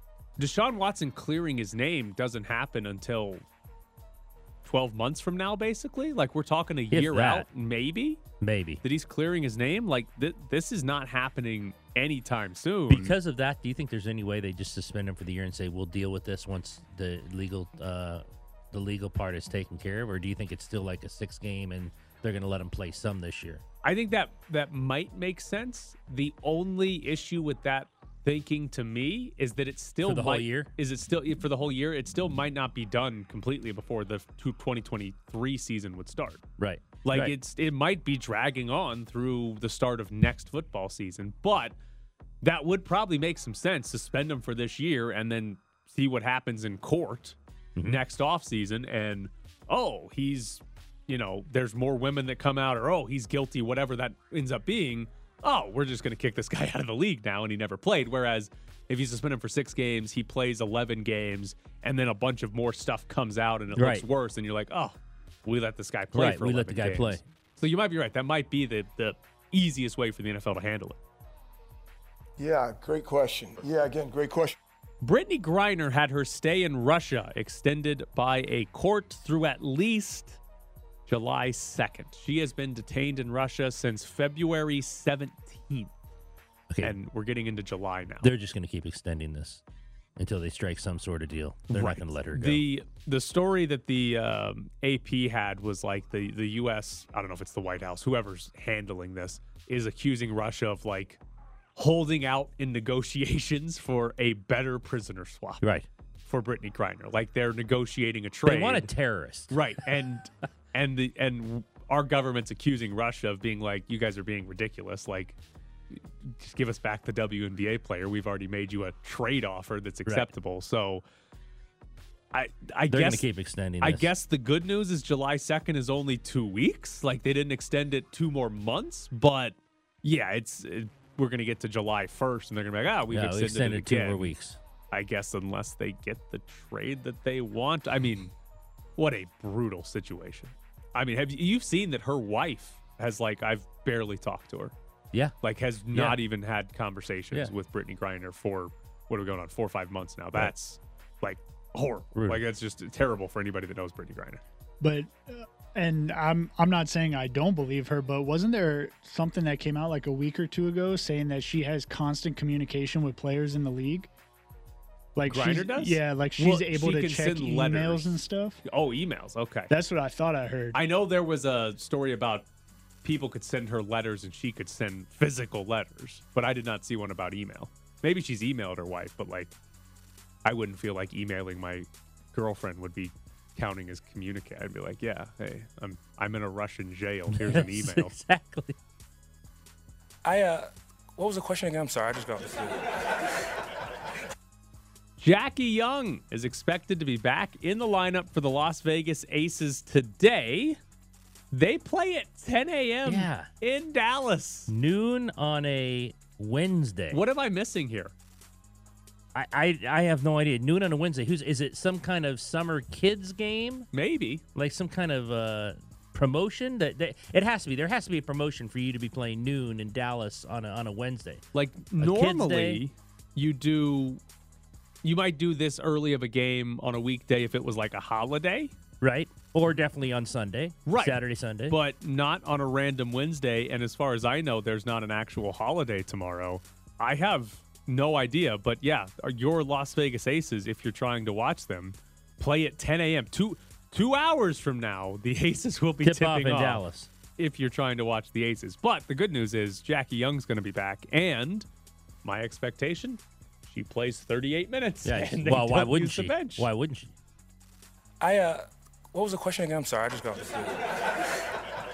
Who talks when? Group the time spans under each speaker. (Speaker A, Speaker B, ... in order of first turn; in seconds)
Speaker A: 0.4-3.4, 4.6-8.2, 8.8-13.1, 23.8-36.4, 37.0-41.8, 42.4-71.0, 75.0-80.4, 81.1-85.9, 86.8-88.3, 91.7-101.2, 101.8-105.6, 106.2-108.9, 109.5-115.4, 115.9-121.0, 122.3-123.2, 123.8-134.3, 134.9-138.3, 138.9-144.7, 145.4-154.4, 165.2-169.7, 170.7-172.5, 173.0-179.5, 180.4-188.1, 195.2-200.8, 201.5-204.7, 207.1-208.1, 213.9-214.4, 221.5-224.2, 225.0-228.7, 230.8-246.8, 247.3-251.7, 252.2-256.7
Speaker B: 6.9-7.5, 8.4-8.8, 12.9-23.6, 30.0-30.7, 36.6-37.3, 63.7-64.0, 66.1-67.2, 86.7-87.0, 88.2-89.6, 90.2-92.6, 105.6-105.9, 108.5-109.8, 120.0-120.3, 122.9-124.1, 133.1-134.6, 145.9-146.2, 152.1-152.4, 187.3-188.8, 203.0-203.5, 204.7-207.2, 209.3-213.9, 214.5-221.4, 222.0-222.8, 229.0-231.8, 246.0-247.1, 255.0-257.1
Speaker C: 72.4-74.5
Speaker D: 154.8-164.1, 165.1-168.6, 169.7-170.8
Speaker E: 190.2-192.9, 258.2-260.8